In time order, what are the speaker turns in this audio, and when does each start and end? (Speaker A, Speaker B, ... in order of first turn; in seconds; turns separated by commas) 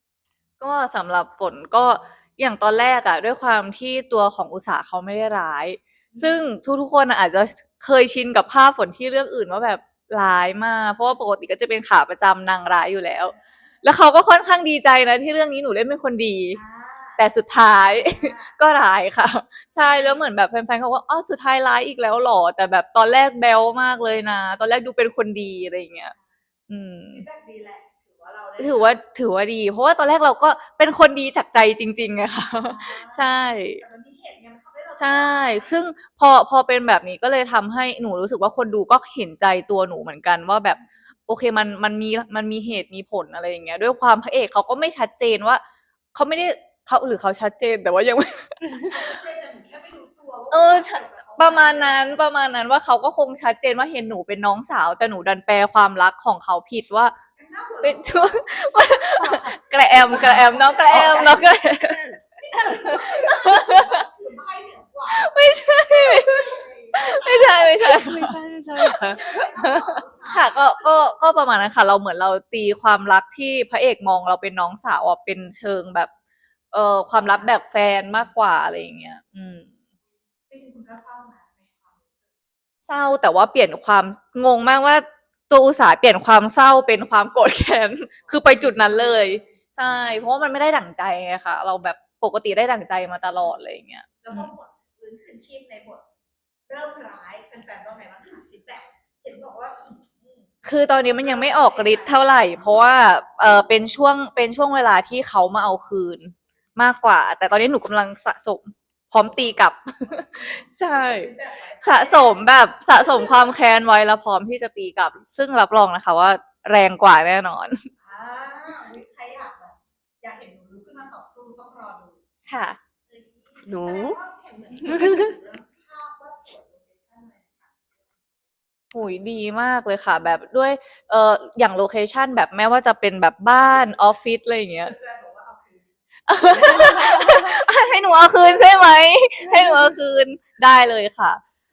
Speaker A: 0.6-16.6, Speaker B: 6.1-6.4, Speaker B: 13.1-13.6, Speaker B: 16.5-18.6, Speaker A: 17.2-26.1, Speaker B: 19.7-20.2, Speaker A: 26.7-27.2, Speaker B: 27.1-29.0, Speaker A: 28.6-33.8, Speaker B: 32.5-35.8, Speaker A: 35.0-45.6, Speaker A: 46.1-48.9, Speaker B: 48.9-52.2, Speaker A: 50.5-57.2, Speaker B: 57.4-58.7, Speaker A: 57.8-62.0, Speaker B: 60.1-61.5, Speaker C: 60.1-62.2, Speaker B: 62.4-68.0, Speaker A: 62.9-64.0, Speaker A: 65.1-68.4, Speaker C: 67.8-70.0, Speaker B: 68.9-70.9, Speaker A: 70.3-76.1, Speaker A: 76.7-79.7, Speaker B: 77.2-77.5, Speaker B: 80.5-82.3, Speaker A: 82.9-94.5, Speaker B: 88.2-89.6, Speaker B: 94.2-96.0, Speaker B: 96.7-100.5, Speaker A: 100.6-111.3, Speaker B: 101.1-102.4, Speaker B: 110.4-113.5, Speaker A: 111.8-117.9, Speaker B: 118.0-122.2, Speaker A: 122.5-122.8, Speaker B: 123.1-128.2, Speaker C: 123.7-124.2, Speaker C: 124.9-125.3, Speaker A: 128.9-134.9, Speaker B: 134.8-137.7, Speaker A: 136.3-141.4, Speaker B: 139.5-139.8